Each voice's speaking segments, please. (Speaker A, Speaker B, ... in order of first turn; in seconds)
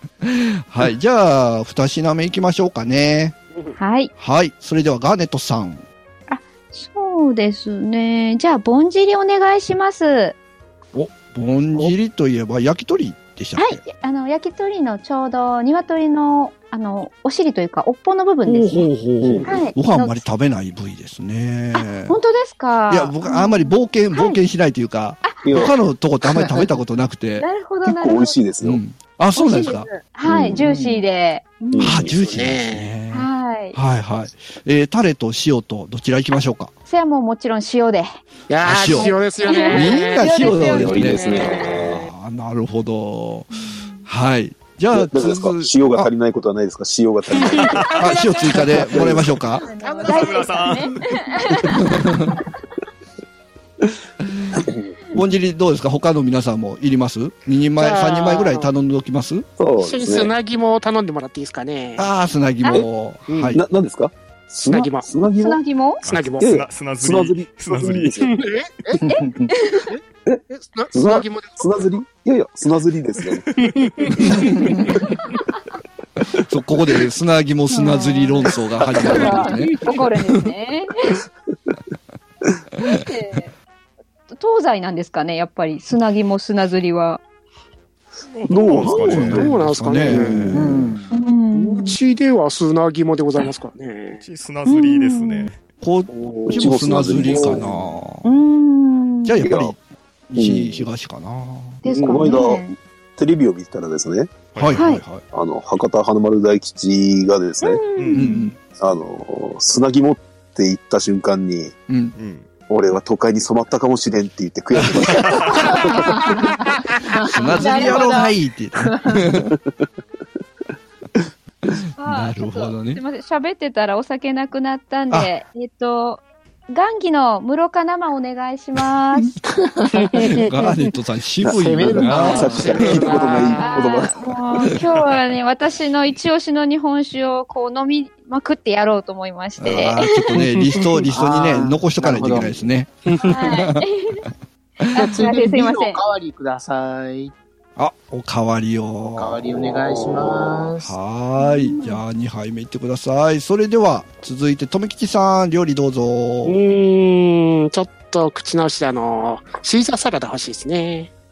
Speaker A: 0.2-3.4, 4.2-5.8, 10.9-13.8, 18.4-22.2, 22.9-27.4, 28.6-29.9, 31.8-36.7, 38.6-39.1, 39.7-41.2, 42.0-43.5, 44.0-46.1, 48.0-49.6, 51.7-52.4, 55.1-59.4, 62.0-63.6, 76.5-80.4, 89.0-90.9, 95.8-98.2, 99.2-99.8, 100.3-101.8, 104.6-105.2, 108.1-108.6, 111.9-112.1, 117.3-119.5, 122.0-123.0, 130.2-133.1, 139.6-143.8, 147.8-149.4, 150.8-156.6
Speaker B: 3.8-4.1, 6.3-10.3, 13.6-20.2, 21.7-24.4, 27.4-28.4, 29.4-32.0, 33.1-33.8, 36.9-38.1, 38.9-41.8, 43.5-44.1, 47.9-48.6, 49.6-51.9, 65.3-66.0, 69.0-69.9, 77.7-81.2, 82.8-83.5, 84.3-87.2, 91.1-92.0, 94.7-95.5, 98.2-99.5, 101.8-102.8, 104.7-105.0, 107.6-108.5, 117.4-118.3, 122.0-129.4, 133.5-140.5, 143.2-144.3, 144.9-146.0, 151.4-152.0
Speaker C: 19.2-19.6, 25.4-25.7, 27.9-28.8, 30.2-30.7, 31.7-32.1, 40.4-42.1, 44.9-47.9, 48.6-49.4, 59.6-60.3, 63.5-65.6, 66.4-68.4, 70.9-73.5, 79.0-79.3, 88.5-89.5, 90.0-90.9, 96.5-97.8, 99.4-99.7, 100.3-100.9, 102.0-102.6, 103.2-104.5, 105.2-107.8, 108.7-111.8, 112.7-115.8, 131.4-134.7, 149.7-150.5
Speaker D: 30.5-31.0, 69.0-69.5, 90.5-91.1, 117.3-118.3, 118.8-119.2, 129.7-130.4, 131.5-133.0, 141.1-142.5, 144.9-147.3, 149.1-150.9
Speaker E: 32.0-32.9, 38.5-40.3, 41.2-42.0, 47.5-48.6, 49.8-50.7, 57.8-58.7, 59.8-62.1, 63.3-63.5, 64.7-65.1, 66.0-66.5, 68.2-69.0, 69.9-71.8, 73.6-74.6, 89.2-90.6, 91.5-94.2, 96.1-96.7, 97.3-97.6, 101.9-102.2, 130.0-130.4, 132.1-133.9, 140.5-140.8, 143.1-143.4, 156.4-161.1
Speaker F: 47.7-48.0, 50.0-51.0, 66.0-68.2, 88.3-89.5, 94.2-95.6, 104.5-104.8, 108.0-108.2, 112.2-112.5, 115.1-115.6